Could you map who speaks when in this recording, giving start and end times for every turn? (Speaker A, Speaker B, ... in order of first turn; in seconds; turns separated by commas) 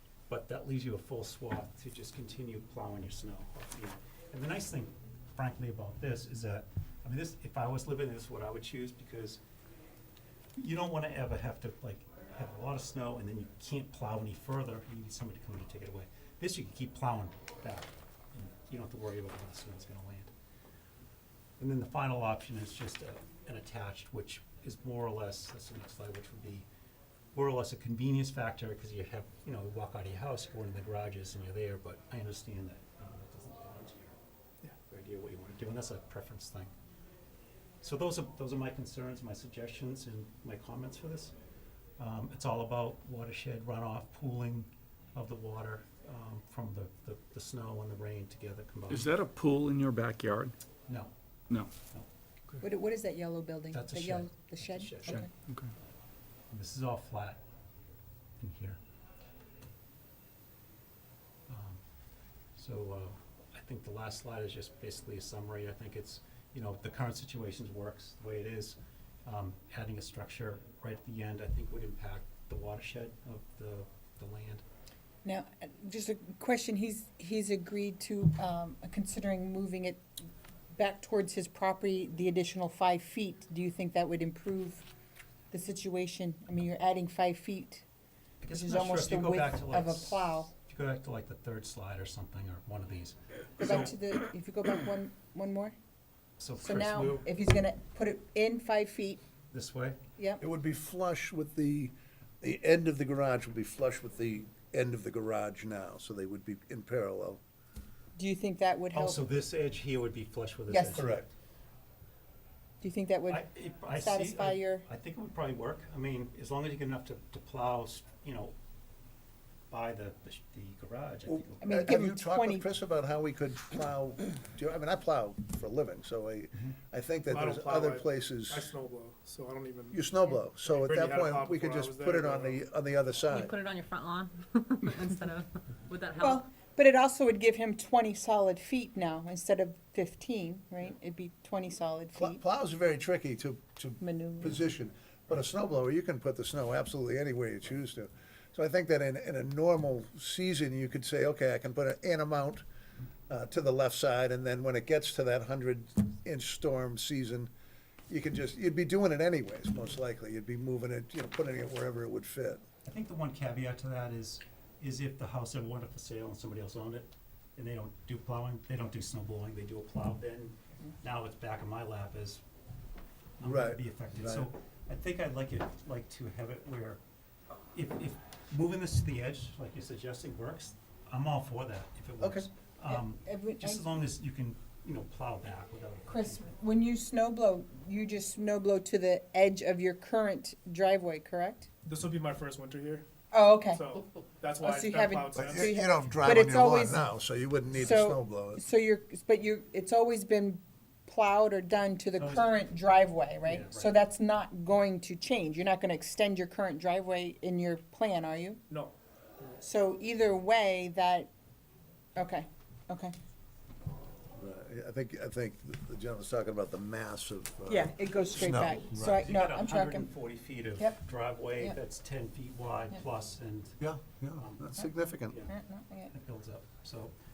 Speaker A: 0.3-9.4, Speaker A: 10.6-20.3, Speaker A: 21.6-26.7, Speaker A: 27.3-34.1, Speaker A: 34.9-36.7, Speaker A: 37.8-41.3, Speaker A: 42.0-49.1, Speaker B: 48.9-50.5, Speaker C: 52.6-55.3, Speaker A: 53.7-55.3, Speaker B: 55.0-55.7, Speaker A: 56.5-57.4, Speaker A: 58.4-58.8, Speaker A: 61.5-61.8, Speaker A: 62.5-74.6, Speaker C: 75.2-80.0, Speaker C: 80.7-84.8, Speaker C: 85.5-87.8, Speaker A: 88.4-93.9, Speaker C: 88.5-90.5, Speaker C: 93.6-95.7, Speaker A: 96.4-97.2, Speaker C: 96.6-99.2, Speaker A: 99.5-100.0, Speaker D: 100.4-107.4, Speaker C: 108.2-109.2, Speaker A: 108.9-111.3, Speaker C: 110.7-111.0, Speaker D: 110.9-111.2, Speaker C: 112.8-113.4, Speaker A: 113.3-118.5, Speaker C: 114.0-114.8, Speaker A: 119.7-121.6, Speaker D: 121.3-128.6, Speaker C: 121.6-122.6, Speaker E: 127.3-130.1, Speaker D: 129.9-133.5, Speaker E: 130.6-132.6, Speaker F: 133.3-136.4, Speaker C: 136.2-142.4, Speaker D: 142.1-152.6, Speaker C: 144.0-144.6, Speaker D: 153.3-157.5, Speaker D: 158.1-162.6, Speaker A: 162.8-172.4, Speaker A: 173.4-177.0, Speaker D: 173.4-174.5, Speaker A: 177.7-186.5, Speaker D: 182.2-182.5, Speaker C: 182.8-183.8, Speaker C: 186.1-191.7, Speaker E: 191.8-193.0, Speaker C: 193.3-193.8, Speaker E: 193.6-195.8, Speaker C: 194.6-197.0, Speaker D: 195.3-198.6, Speaker C: 197.7-208.6, Speaker A: 202.2-202.8, Speaker A: 203.4-204.0, Speaker C: 209.6-211.3, Speaker C: 212.2-213.1, Speaker D: 214.3-219.2, Speaker C: 217.7-220.1, Speaker A: 218.9-223.8, Speaker D: 223.8-225.4, Speaker A: 224.4-224.8, Speaker C: 225.4-226.1, Speaker A: 226.1-227.1